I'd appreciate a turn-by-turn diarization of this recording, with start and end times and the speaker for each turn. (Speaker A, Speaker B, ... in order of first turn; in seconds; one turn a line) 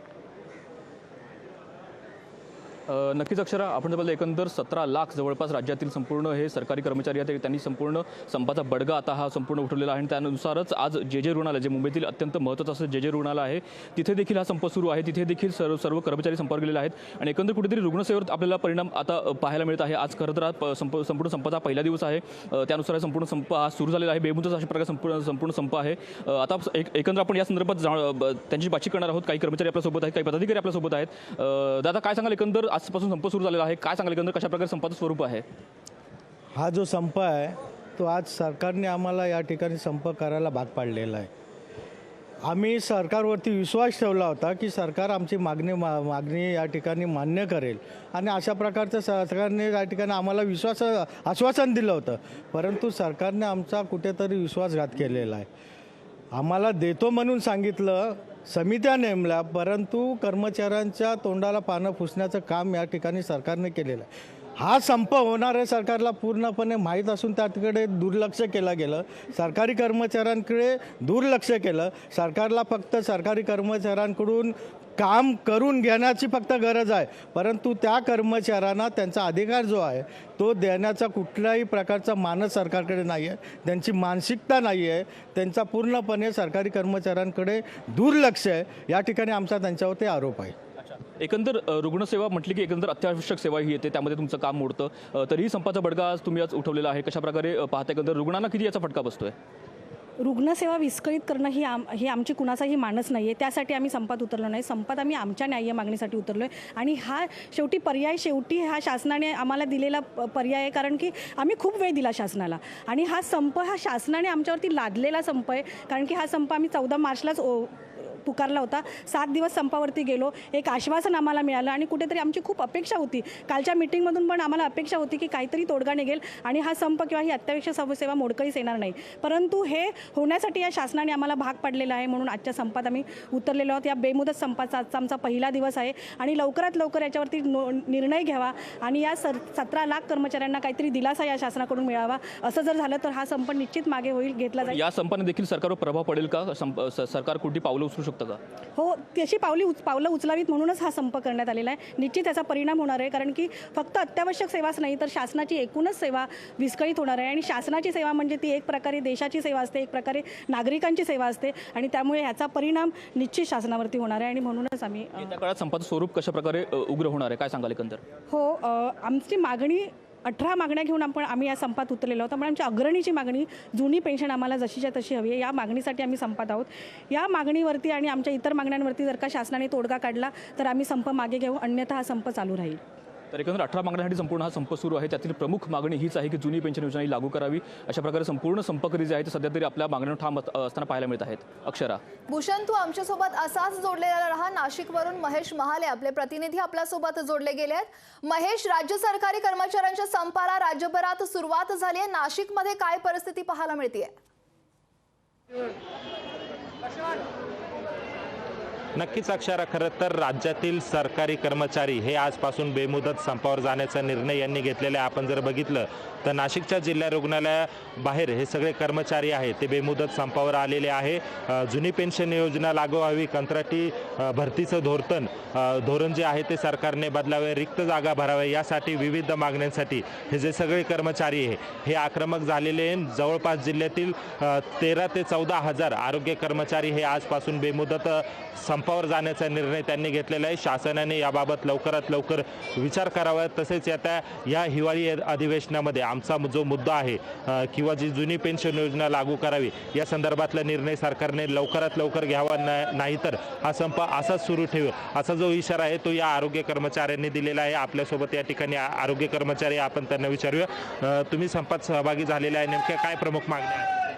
Speaker A: 3.0-35.4
Speaker B: 36.5-41.3
Speaker B: 42.5-55.5
Speaker B: 56.3-90.5
Speaker A: 91.2-99.2
Speaker C: 100.2-144.9
Speaker A: 145.1-148.3
Speaker C: 148.8-165.4
Speaker A: 165.6-168.0
Speaker C: 168.3-182.8
Speaker A: 183.4-192.0
Speaker D: 192.3-204.2
Speaker E: 209.0-263.9